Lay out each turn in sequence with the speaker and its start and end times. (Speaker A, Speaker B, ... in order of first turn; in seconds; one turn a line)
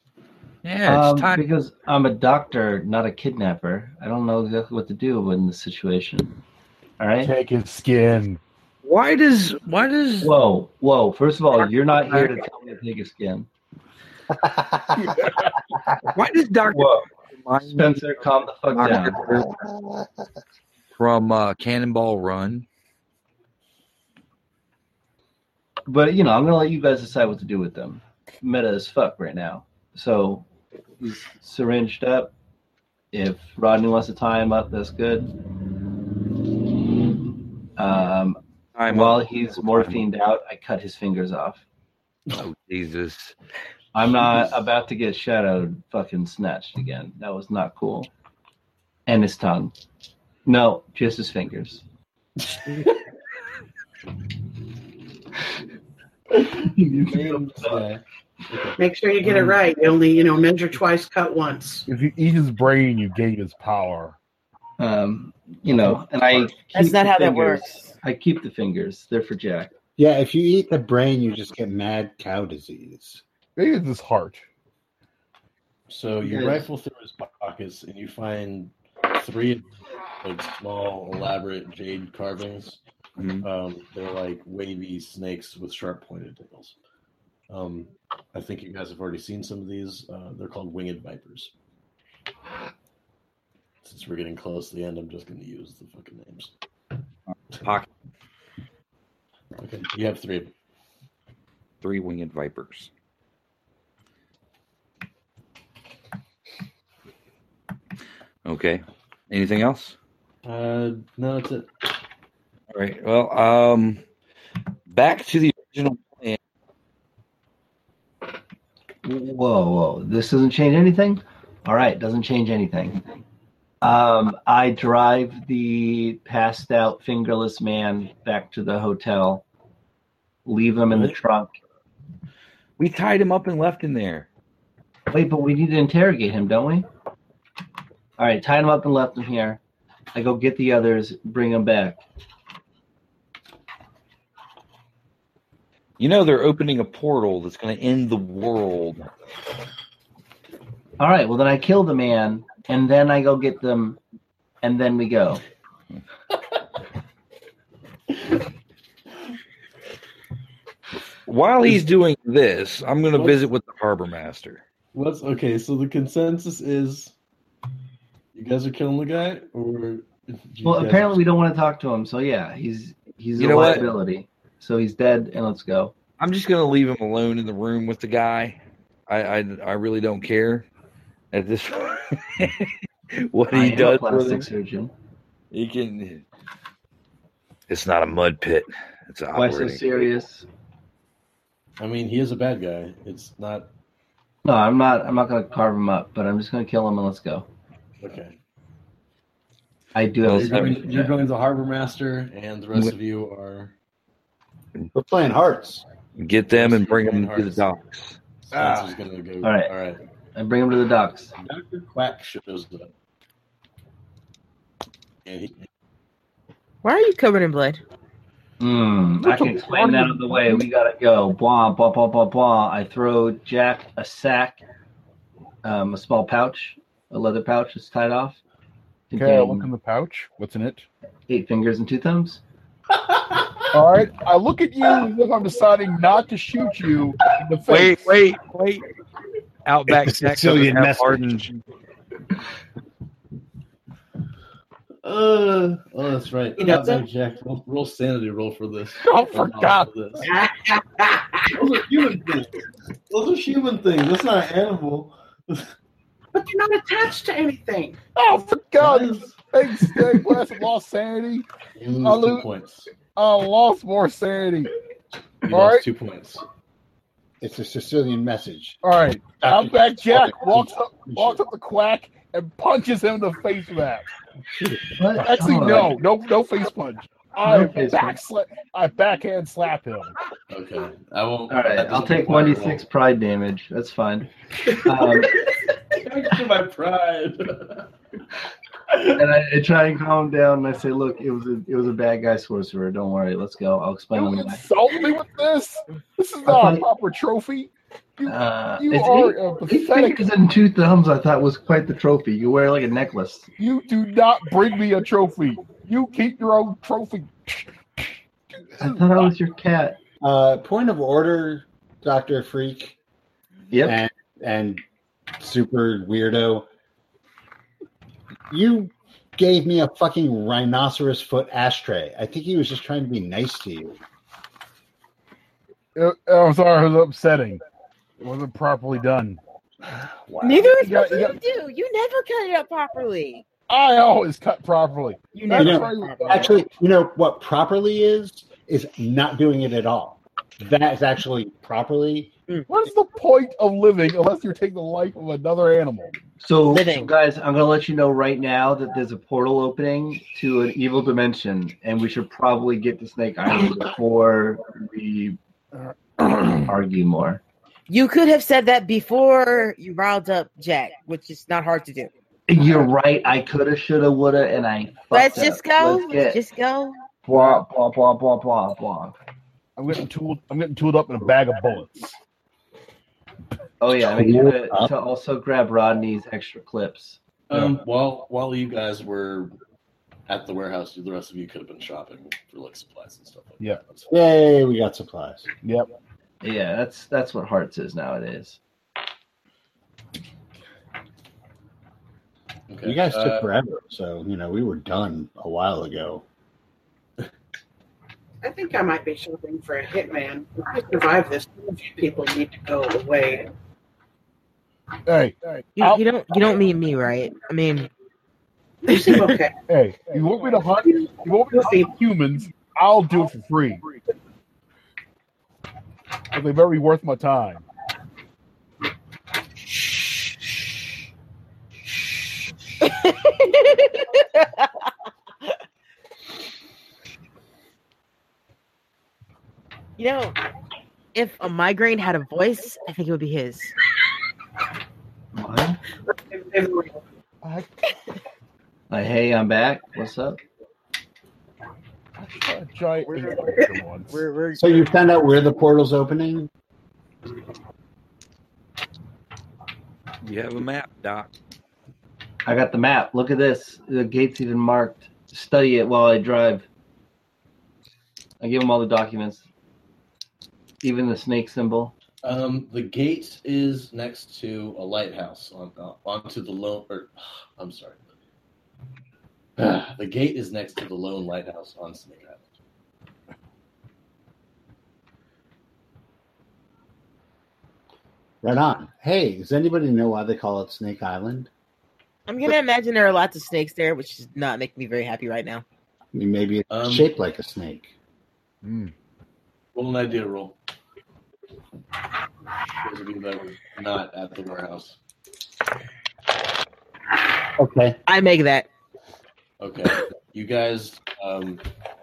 Speaker A: 0.6-1.4
Speaker B: 0.8-6.4
Speaker B: 7.0-7.3
Speaker C: 7.2-8.4
Speaker A: 8.8-10.3
Speaker B: 10.2-13.5
Speaker A: 12.0-12.3
Speaker D: 14.3-15.2
Speaker A: 16.1-18.1
Speaker B: 16.7-17.1
Speaker B: 17.6-19.2
Speaker A: 18.7-19.6
Speaker D: 19.2-20.1
Speaker A: 21.0-22.6
Speaker B: 25.9-30.4
Speaker B: 31.0-32.3
Speaker B: 33.1-35.3
Speaker B: 37.8-41.6
Speaker A: 38.7-40.0
Speaker A: 42.3-43.3
Speaker B: 43.9-48.1
Speaker B: 49.1-49.7
Speaker B: 50.5-51.8
Speaker B: 56.4-57.8
Speaker E: 57.0-58.8
Speaker F: 58.8-61.9
Speaker C: 61.9-64.2
Speaker B: 64.8-69.7
Speaker G: 66.7-67.6
Speaker D: 70.0-73.2
Speaker C: 73.5-74.4
Speaker E: 75.9-79.7
Speaker B: 76.2-76.7
Speaker E: 80.2-82.8
Speaker A: 83.2-83.5
Speaker E: 83.4-86.7
Speaker E: 87.5-91.5
Speaker E: 93.8-96.5
Speaker A: 97.5-97.8
Speaker E: 99.6-100.5
Speaker A: 101.8-102.9
Speaker A: 108.4-109.9
Speaker E: 110.4-111.7
Speaker A: 112.7-114.0
Speaker A: 114.9-116.4
Speaker B: 119.0-123.0
Speaker B: 123.8-129.4
Speaker B: 130.4-131.5
Speaker A: 132.8-134.3
Speaker B: 135.1-136.9
Speaker B: 138.2-139.6
Speaker B: 140.1-142.0
Speaker A: 146.0-149.1
Speaker B: 151.0-154.0
Speaker B: 154.6-155.4
Speaker A: 161.2-164.6
Speaker E: 164.9-167.1
Speaker E: 168.3-171.2
Speaker B: 170.6-175.9
Speaker A: 173.3-173.9
Speaker A: 176.2-180.7
Speaker A: 181.3-184.5
Speaker B: 183.5-184.9
Speaker A: 185.5-186.2
Speaker A: 187.7-189.8
Speaker B: 189.3-190.4
Speaker E: 191.8-193.7
Speaker B: 194.4-197.5
Speaker E: 198.0-198.3
Speaker B: 199.9-201.1
Speaker A: 200.2-201.1
Speaker E: 200.3-203.7
Speaker D: 204.9-205.8
Speaker A: 206.2-208.2
Speaker E: 206.5-207.7
Speaker E: 208.4-210.0
Speaker C: 208.6-208.8
Speaker B: 209.4-209.7
Speaker B: 210.3-211.3
Speaker E: 211.4-212.9
Speaker E: 215.2-215.6
Speaker G: 216.8-217.8
Speaker B: 218.6-224.6
Speaker C: 219.2-220.6
Speaker B: 225.6-228.4
Speaker B: 229.1-229.7
Speaker C: 229.2-230.8
Speaker B: 231.3-232.4
Speaker C: 233.7-238.3
Speaker A: 237.7-238.8
Speaker A: 239.6-241.6
Speaker D: 239.9-241.5
Speaker E: 245.0-250.3
Speaker F: 246.6-247.0
Speaker C: 249.0-249.9
Speaker F: 250.2-251.5
Speaker E: 251.5-255.7
Speaker F: 256.3-258.0
Speaker C: 258.1-261.4
Speaker E: 258.8-259.4
Speaker E: 261.8-262.9
Speaker D: 261.8-262.2
Speaker C: 262.0-262.4
Speaker C: 263.1-264.7
Speaker E: 265.4-266.4
Speaker C: 265.5-265.9
Speaker D: 267.4-268.8
Speaker C: 268.8-274.0
Speaker D: 269.4-271.4
Speaker B: 274.9-275.9
Speaker C: 275.1-280.1
Speaker B: 277.4-278.2
Speaker E: 280.5-282.8
Speaker B: 281.5-285.3
Speaker E: 285.9-287.9
Speaker B: 289.0-294.6
Speaker C: 294.1-300.3
Speaker B: 296.4-296.9
Speaker B: 298.2-303.5
Speaker C: 303.6-308.1
Speaker B: 308.8-310.0
Speaker D: 310.2-312.9
Speaker B: 313.7-314.0
Speaker D: 313.8-314.8
Speaker D: 315.4-316.7
Speaker D: 318.5-324.0
Speaker C: 325.9-327.6
Speaker C: 328.2-329.4
Speaker D: 330.3-330.7
Speaker G: 330.4-333.4
Speaker C: 330.6-331.3
Speaker C: 333.7-336.6
Speaker G: 335.3-336.5
Speaker D: 335.5-342.3
Speaker C: 342.7-346.1
Speaker B: 346.4-355.4
Speaker G: 346.7-347.1
Speaker B: 356.6-357.4
Speaker G: 357.9-362.1
Speaker B: 362.5-366.4
Speaker G: 365.1-367.0
Speaker B: 367.2-369.1
Speaker C: 367.3-367.6
Speaker C: 369.8-372.2
Speaker B: 373.8-377.2
Speaker D: 374.0-374.9
Speaker E: 377.5-379.6
Speaker C: 377.5-377.8
Speaker E: 380.3-384.1
Speaker D: 384.1-385.5
Speaker B: 386.4-388.6
Speaker E: 392.7-393.5
Speaker D: 392.8-396.2
Speaker F: 398.4-403.5
Speaker C: 405.1-406.0
Speaker G: 405.8-407.9
Speaker F: 408.8-409.5
Speaker G: 408.9-409.3
Speaker C: 409.7-413.9
Speaker F: 410.8-411.9
Speaker C: 416.3-417.6
Speaker G: 422.8-424.9
Speaker G: 430.0-430.4
Speaker G: 431.1-433.7
Speaker B: 435.3-435.8
Speaker F: 436.3-436.9
Speaker C: 437.4-437.7
Speaker B: 438.9-440.4
Speaker C: 442.2-444.2
Speaker G: 443.1-444.9
Speaker D: 444.5-446.5
Speaker A: 450.2-451.3
Speaker B: 452.4-456.6
Speaker B: 458.4-459.4
Speaker B: 460.8-461.9
Speaker E: 462.2-468.0
Speaker E: 469.6-472.4
Speaker D: 478.4-481.5
Speaker G: 482.3-485.6
Speaker D: 486.1-487.9
Speaker E: 486.7-487.1
Speaker C: 488.6-488.9
Speaker E: 489.7-490.6
Speaker E: 492.8-495.0
Speaker D: 497.6-498.0
Speaker G: 498.1-498.7
Speaker E: 499.6-501.6